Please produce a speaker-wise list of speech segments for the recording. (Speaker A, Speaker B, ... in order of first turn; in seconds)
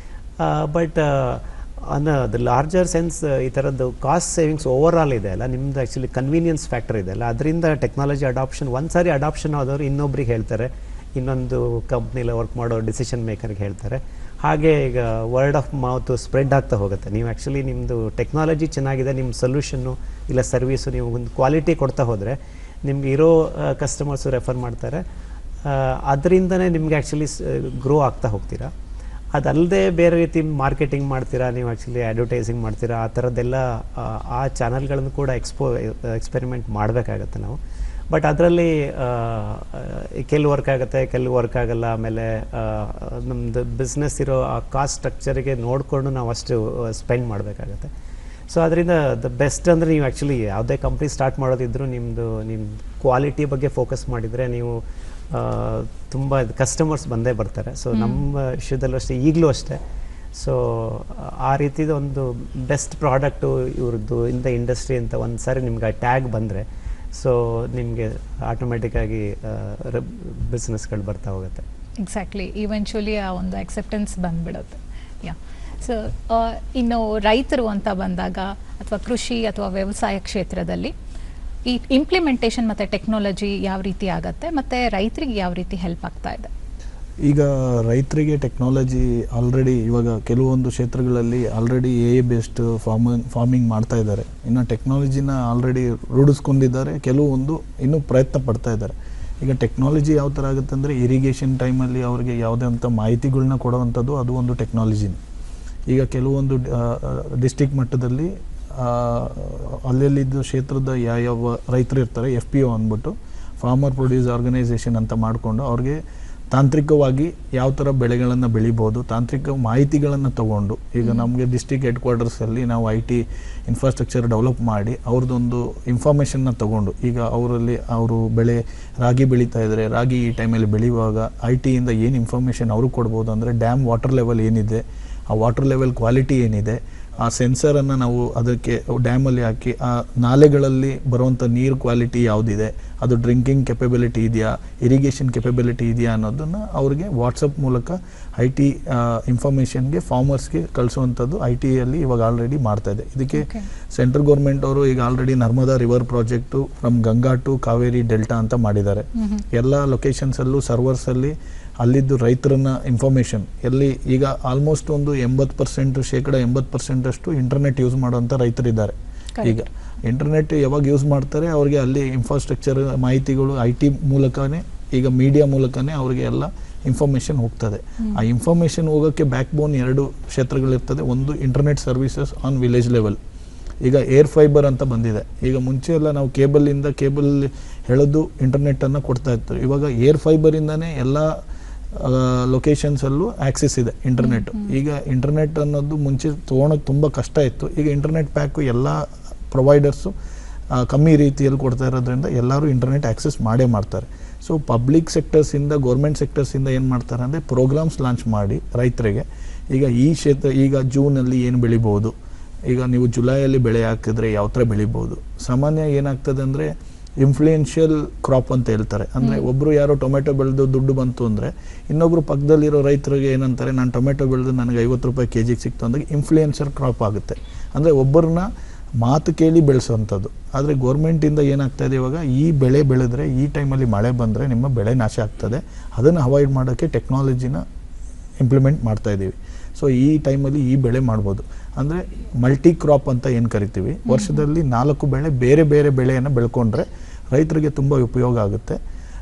Speaker A: 0.4-25.0, 25.6-28.7, 29.3-37.6, 38.1-47.9, 48.5-59.8, 60.3-71.6
Speaker B: 57.9-58.2, 72.0-80.9, 81.7-86.5, 121.0-121.3, 153.3-153.7, 159.2-159.4, 169.4-169.7, 194.2-194.7, 219.2-219.5, 244.1-244.4
Speaker C: 87.2-105.2, 105.9-116.0, 116.5-183.2, 183.8-191.3, 191.9-200.1, 200.7-212.1, 212.7-228.5, 229.0-237.6, 238.4-248.8